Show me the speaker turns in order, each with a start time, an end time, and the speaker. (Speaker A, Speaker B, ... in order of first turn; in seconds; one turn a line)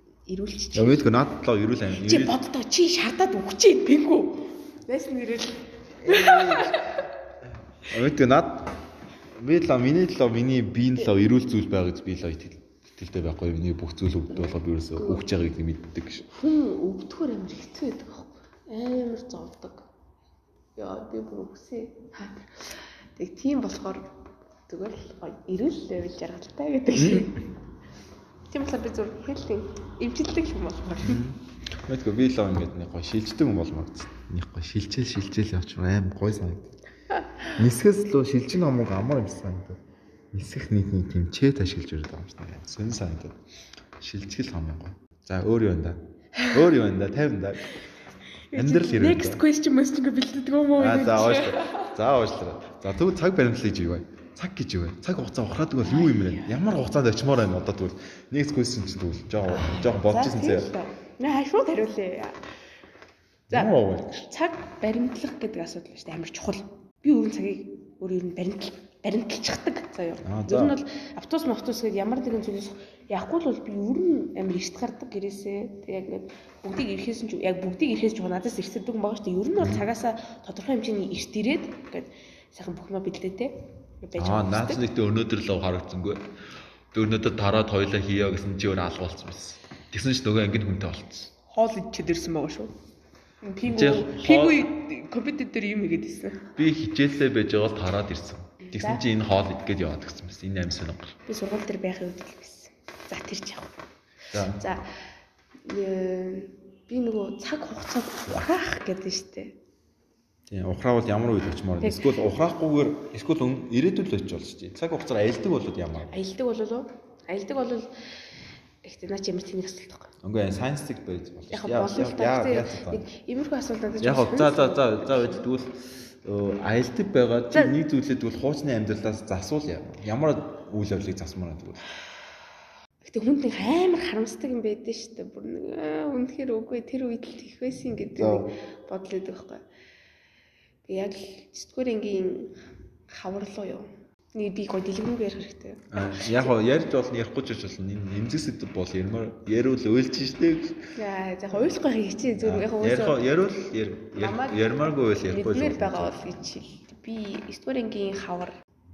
Speaker A: 0.3-1.1
Speaker B: 0.7-2.4
Speaker A: 1.9-7.0
Speaker B: 6.0-6.9
Speaker B: 7.8-8.7
Speaker B: 9.4-16.3
Speaker A: 14.3-15.2
Speaker A: 16.3-19.9
Speaker A: 20.8-24.1
Speaker A: 24.7-27.4
Speaker B: 26.9-27.4
Speaker A: 28.5-31.2
Speaker B: 31.0-36.7
Speaker A: 37.1-37.4
Speaker B: 37.5-39.8
Speaker B: 40.3-43.4
Speaker B: 44.0-47.8
Speaker A: 48.5-51.9
Speaker B: 48.5-49.4
Speaker B: 50.8-60.7
Speaker A: 55.8-56.6
Speaker A: 59.5-62.4
Speaker B: 63.5-64.3
Speaker A: 64.3-84.8
Speaker B: 70.2-70.8
Speaker B: 79.6-79.8
Speaker B: 84.2-86.3
Speaker B: 86.9-91.3
Speaker A: 91.5-92.7
Speaker A: 93.4-96.5
Speaker B: 93.6-94.6
Speaker B: 96.5-101.2
Speaker A: 98.6-99.0
Speaker A: 101.3-103.8
Speaker B: 104.3-104.6
Speaker A: 104.5-104.9
Speaker A: 105.6-109.6
Speaker B: 110.5-116.2
Speaker A: 111.8-112.2
Speaker A: 116.1-117.9
Speaker A: 118.8-120.1
Speaker B: 120.2-123.0
Speaker A: 121.5-125.5
Speaker B: 124.0-131.8
Speaker A: 133.0-139.6
Speaker B: 138.2-138.5
Speaker A: 140.8-142.6
Speaker A: 143.1-146.5
Speaker B: 145.9-150.8
Speaker A: 151.0-158.6
Speaker B: 152.4-156.3